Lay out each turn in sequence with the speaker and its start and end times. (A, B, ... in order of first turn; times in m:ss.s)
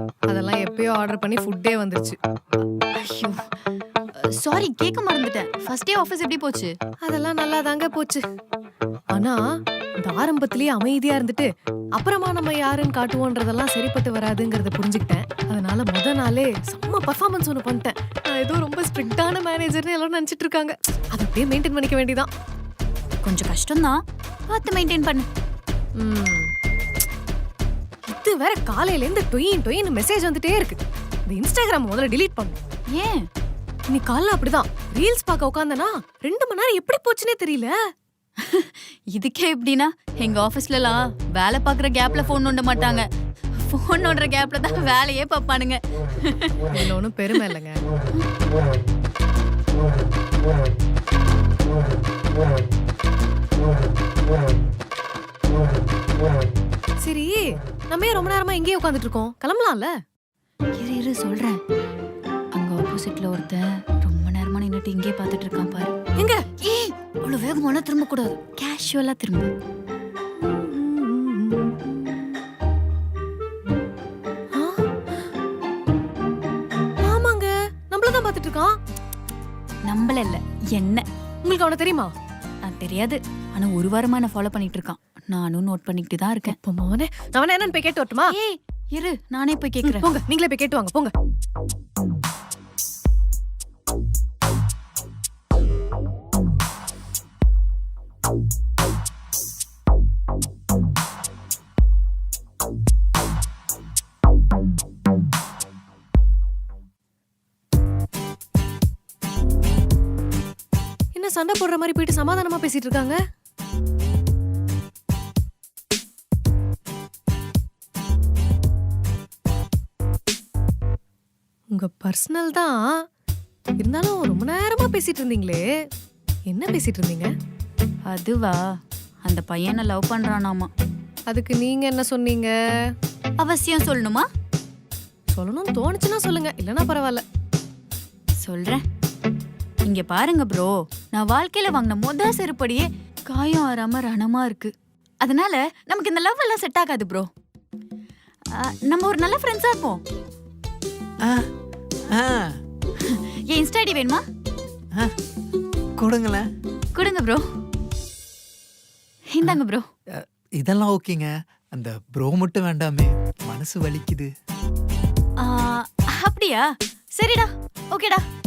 0:00.3-0:02.2 A
0:03.0-0:03.4 B
0:04.2-0:06.7 B
0:07.0-0:08.2 A
0:09.1-0:09.4 A
0:10.0-0:22.3 A
0:23.2-0:25.3 B
0:26.0-0:26.5 A
0:28.1-0:32.6 A
0:32.9-0:33.2 B
0:33.9-0:37.7 A
0:38.4-0:43.0 B
0:43.6-0:47.5 B
0:46.7-0:47.8 A
0:57.0-0:59.9 A
1:00.8-1:01.6 B
1:02.5-1:05.9 B
1:06.2-1:06.4 A
1:06.6-1:09.5 B
1:10.4-1:12.2 A
1:14.5-1:15.3 A
1:17.0-1:18.7 A
1:19.8-1:21.0 B
1:21.4-1:22.1 A
1:22.6-1:26.6 B
1:26.4-1:28.4 A
1:28.3-1:30.1 B
1:29.8-1:31.1 A
1:51.1-1:53.2 A
2:01.7-2:02.9 A
2:03.8-2:05.6 A
2:06.5-2:07.3 A
2:08.1-2:08.6 B
2:09.2-2:10.7 B
2:11.3-2:12.5 A
2:13.4-2:14.2 B
2:15.3-2:17.2 A
2:18.4-2:18.8 B
2:19.8-2:24.7 B
2:25.2-2:27.3 B
2:28.5-2:30.0 B
2:31.2-2:31.5 C
2:32.1-2:32.6 C
2:33.0-2:34.2 B
2:36.0-2:36.5 C
2:36.9-2:37.4 B
2:39.3-2:39.9 B
2:40.2-2:44.3 C
2:45.4-2:46.6 B
2:47.2-2:48.2 B